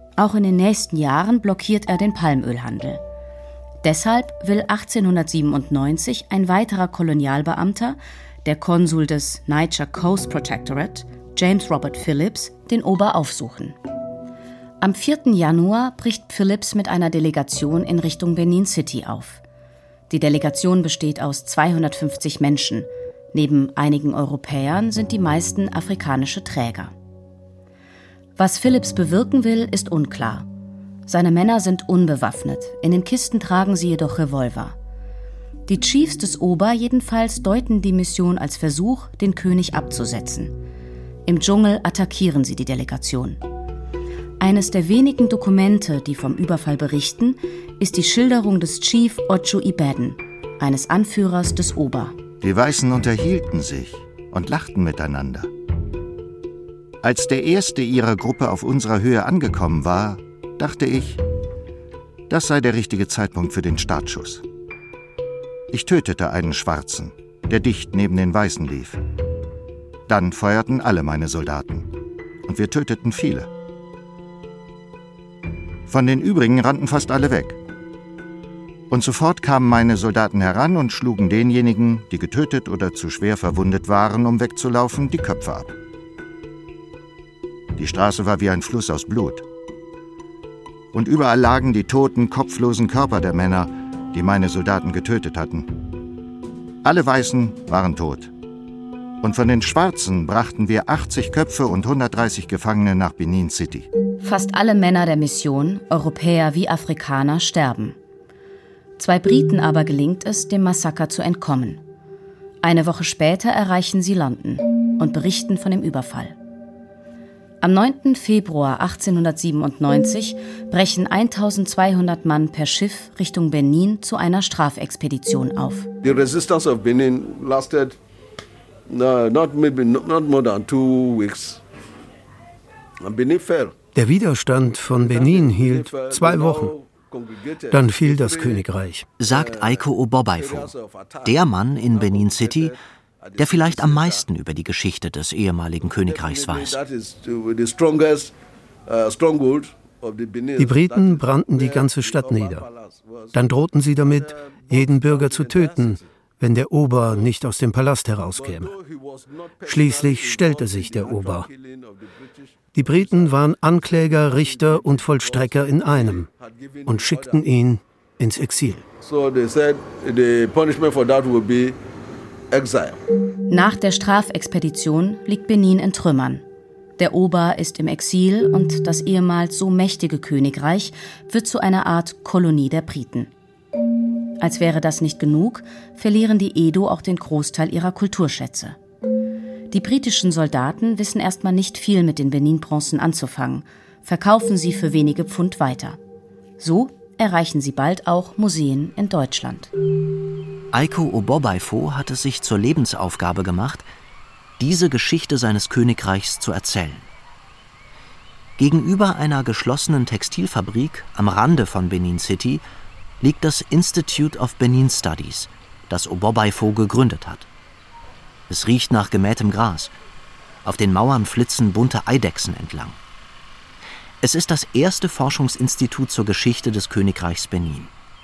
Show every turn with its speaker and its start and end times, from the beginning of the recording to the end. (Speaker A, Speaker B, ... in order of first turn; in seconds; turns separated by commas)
Speaker A: 0.2-3.0, Speaker A: 3.8-13.8, Speaker A: 14.8-19.4, Speaker A: 20.1-26.9, Speaker A: 28.4-30.5, Speaker A: 31.1-34.8, Speaker A: 35.7-40.6, Speaker A: 41.3-43.4, Speaker A: 44.4-52.2, Speaker B: 52.4-55.5, Speaker B: 57.0-61.2, Speaker B: 62.3-64.4, Speaker B: 65.7-69.0, Speaker B: 70.1-71.9, Speaker B: 72.5-73.5, Speaker B: 75.9-77.6, Speaker B: 78.9-85.8, Speaker B: 87.8-89.4, Speaker B: 90.9-95.7, Speaker B: 96.8-98.3, Speaker B: 99.2-103.9, Speaker A: 104.2-108.0, Speaker A: 109.0-111.8, Speaker A: 112.6-116.4, Speaker A: 117.6-125.9, Speaker C: 126.0-128.0, Speaker C: 128.9-131.6, Speaker C: 133.0-133.8, Speaker D: 133.9-136.7, Speaker C: 134.9-138.7, Speaker D: 137.7-139.1, Speaker E: 139.2-142.8, Speaker C: 139.3-141.4, Speaker C: 141.9-144.3, Speaker E: 143.4-146.8, Speaker C: 146.0-148.3, Speaker C: 148.9-156.1, Speaker D: 150.6-152.7, Speaker D: 153.3-158.7, Speaker C: 156.9-157.4, Speaker C: 158.3-167.5, Speaker D: 159.7-161.5, Speaker D: 162.7-166.3, Speaker D: 166.9-168.8, Speaker C: 169.0-171.8, Speaker C: 172.5-173.0, Speaker A: 173.5-176.4, Speaker A: 177.0-183.3, Speaker A: 184.4-188.8, Speaker A: 189.7-196.0, Speaker A: 196.6-199.7, Speaker E: 200.7-203.9, Speaker E: 204.6-207.1, Speaker E: 208.6-212.6, Speaker E: 213.2-217.5, Speaker E: 218.5-219.9, Speaker E: 220.6-223.0, Speaker E: 224.2-227.9